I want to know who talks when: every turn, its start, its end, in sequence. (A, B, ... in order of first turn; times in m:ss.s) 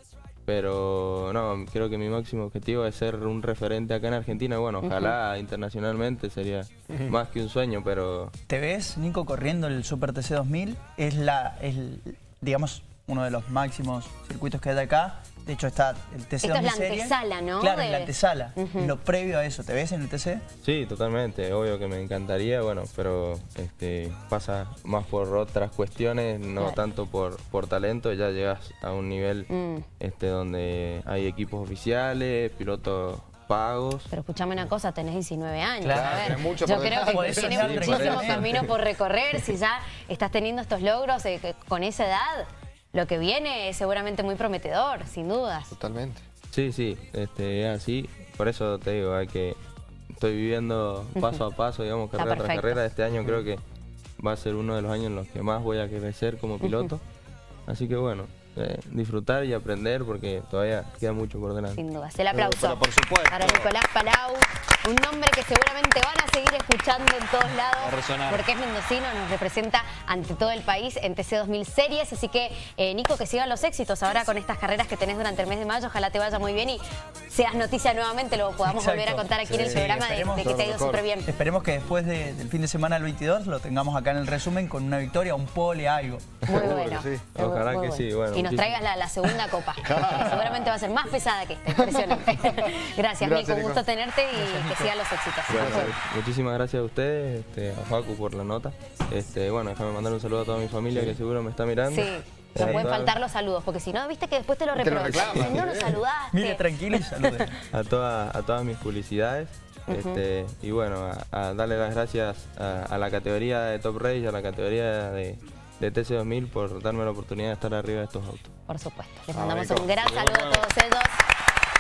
0:00.5-0:08.3 A
0:04.8-0:05.2 B
0:08.5-0:20.4 C
0:16.4-0:18.9 B
0:20.6-0:34.1 A
0:29.5-0:29.9 B
0:34.1-0:45.7 B
0:35.8-0:38.5 C
0:35.9-0:38.7 D
0:45.7-0:46.2 D
0:46.5-0:49.6 A
0:50.1-0:53.6 A
0:51.2-0:51.4 B
0:52.2-0:52.8 B
0:54.2-0:57.0 A
0:56.6-0:56.9 B
0:57.7-1:01.8 A
1:01.8-1:21.3 B
1:02.3-1:03.7 D
1:07.8-1:08.4 D
1:18.6-1:26.5 C
1:19.4-1:19.9 D
1:20.4-1:21.1 D
1:26.5-1:27.3 D
1:26.5-1:35.9 B
1:27.3-1:28.9 A
1:29.8-1:30.7 D
1:31.7-1:32.7 D
1:33.2-1:33.8 D
1:34.4-1:34.9 D
1:35.5-1:43.2 A
1:35.5-1:36.0 D
1:41.9-1:47.4 B
1:42.6-1:43.0 C
1:44.8-1:46.0 D
1:45.2-1:45.4 A
1:46.3-1:47.5 C
1:47.7-1:58.5 A
1:49.9-1:50.2 B
1:58.7-2:01.2 B
1:59.3-2:00.7 D